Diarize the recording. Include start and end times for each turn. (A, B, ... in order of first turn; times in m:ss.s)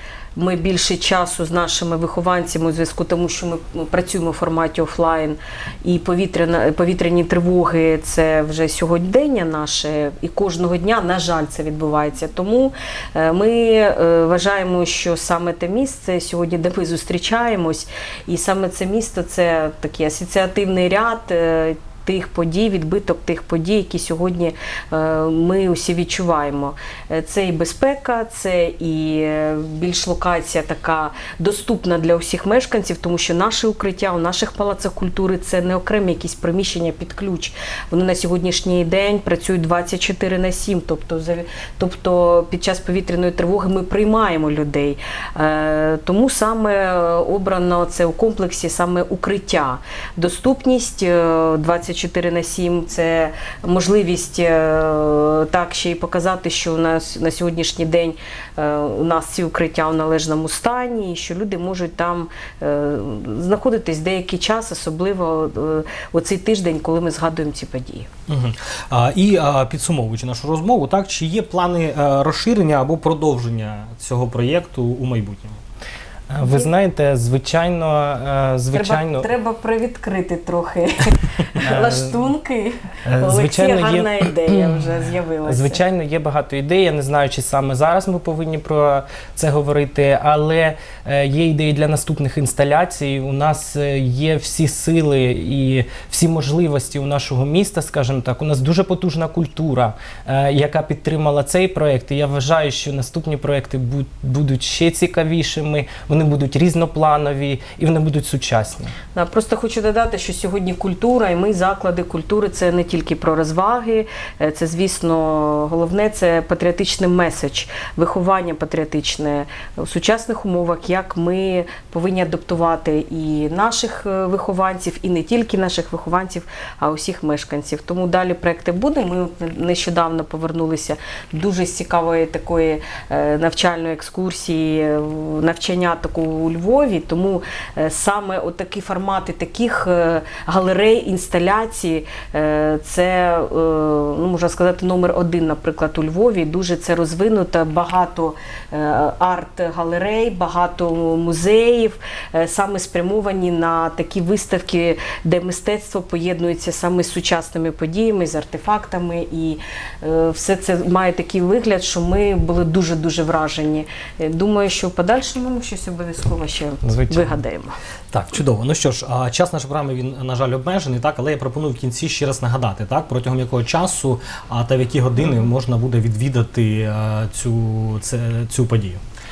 0:00.4-1:08.1 A
1:08.3-1:15.6 B
1:16.3-1:19.3 C
1:16.4-1:16.7 A
1:18.7-1:25.8 A
1:21.6-1:22.2 C
1:23.1-1:24.9 C
1:25.4-1:48.9 C
1:49.1-2:47.8 A
2:46.8-2:47.4 C
2:48.1-2:59.0 B